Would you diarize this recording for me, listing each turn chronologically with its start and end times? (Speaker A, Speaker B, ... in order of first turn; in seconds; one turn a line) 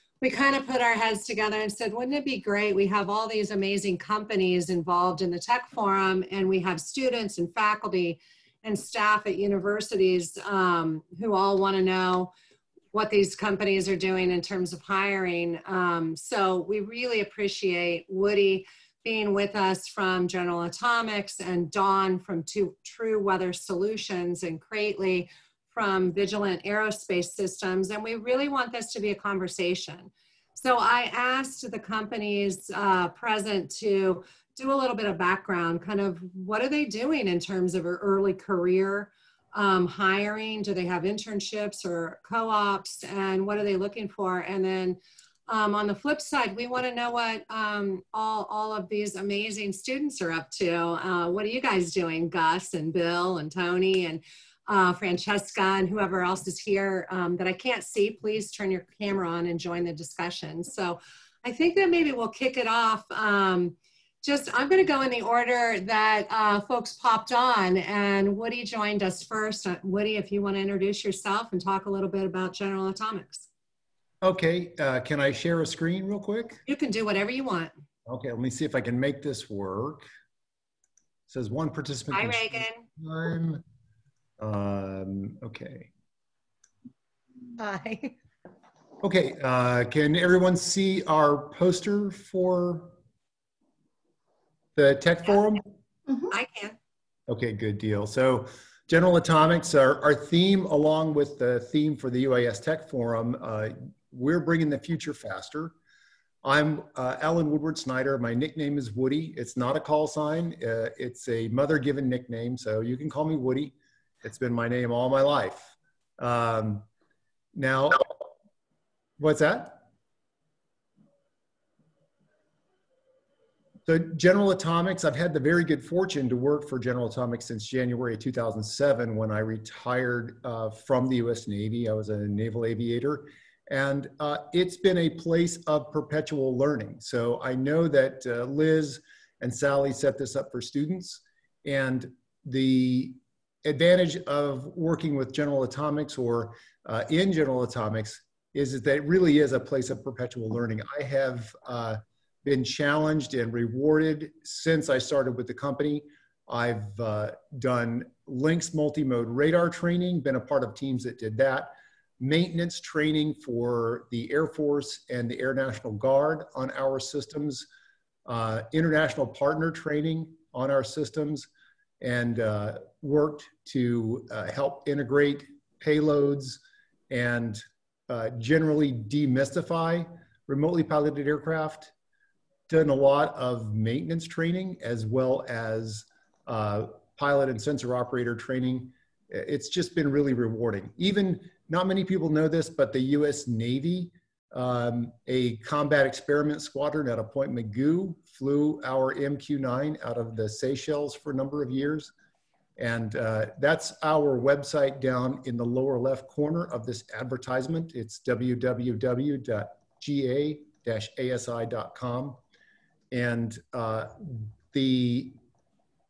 Speaker A: 0.2-12.3
Speaker A: 12.9-73.5
Speaker B: 74.2-76.6
Speaker A: 76.7-77.7
Speaker B: 78.0-80.1
Speaker B: 81.3-83.6
Speaker A: 82.1-82.8
Speaker B: 84.4-85.9
Speaker A: 87.6-88.1
Speaker B: 89.0-93.0
Speaker B: 94.8-95.6
Speaker A: 96.3-96.8
Speaker B: 97.3-105.7
Speaker B: 106.4-116.9
Speaker B: 117.5-118.0
Speaker B: 119.2-119.8
Speaker B: 123.8-167.7
Speaker B: 168.2-171.5
Speaker B: 172.0-181.9
Speaker B: 182.7-202.1
Speaker B: 202.8-212.4
Speaker B: 213.1-215.4